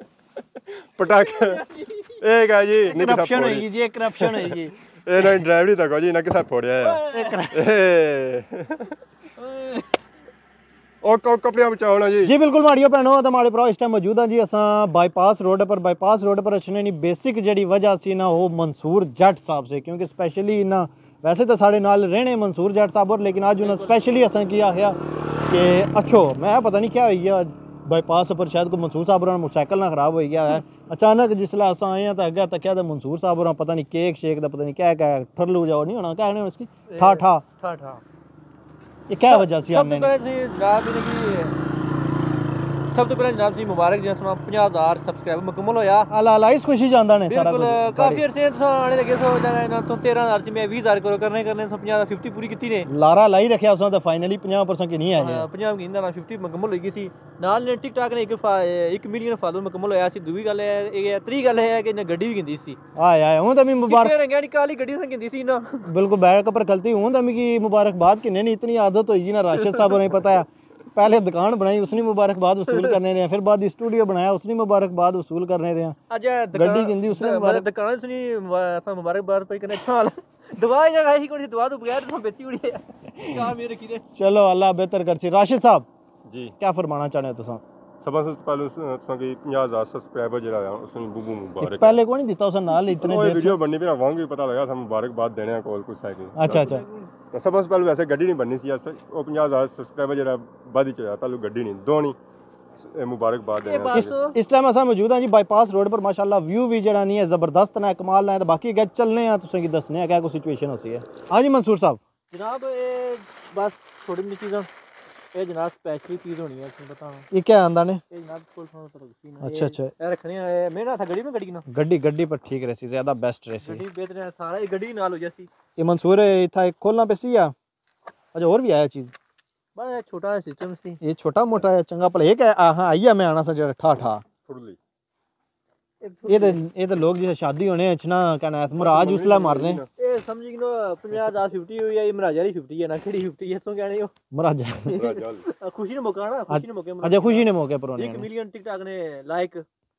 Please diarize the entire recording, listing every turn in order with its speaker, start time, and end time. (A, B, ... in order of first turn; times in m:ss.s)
0:00.7-0:09.0 A
0:01.4-0:02.0 B
0:02.8-0:04.7 C
0:06.8-0:07.4 B
0:07.1-0:07.7 C
0:09.4-0:09.8 B
0:11.0-0:12.3 A
0:12.2-0:25.0 C
0:23.6-0:24.2 B
0:25.5-0:37.4 C
0:36.9-0:38.0 B
0:39.1-0:40.1 C
0:39.2-0:41.6 B
0:42.9-0:46.1 B
0:46.1-0:48.2 C
0:47.3-0:52.9 B
0:52.9-0:55.5 C
0:55.1-1:02.8 B
1:03.0-1:04.2 C
1:03.9-1:05.9 B
1:05.8-1:16.0 C
1:16.1-1:24.0 B
1:16.5-1:17.7 C
1:24.2-1:25.9 C
1:26.3-1:26.5 A
1:26.6-1:27.6 C
1:28.0-1:32.0 A
1:31.6-1:33.6 C
1:32.9-1:36.7 A
1:36.4-1:36.8 C
1:36.5-1:37.1 B
1:37.3-1:42.2 A
1:42.8-1:44.1 A
1:43.6-1:44.4 B
1:44.3-1:52.0 C
1:52.3-1:54.7 B
1:55.3-1:57.3 B
1:57.3-1:58.0 C
1:58.1-2:01.6 B
1:59.4-1:59.9 C
2:01.7-2:03.8 C
2:03.6-2:05.5 B
2:05.8-2:07.5 C
2:08.3-2:09.1 C
2:09.8-2:11.0 B
2:11.0-2:14.2 C
2:14.4-2:14.8 A
2:16.0-2:16.6 B
2:16.3-2:19.8 C
2:18.7-2:19.9 A
2:20.0-2:24.1 B
2:24.3-2:25.0 C
2:24.9-2:25.4 A
2:24.9-2:29.6 B
2:26.5-2:28.3 C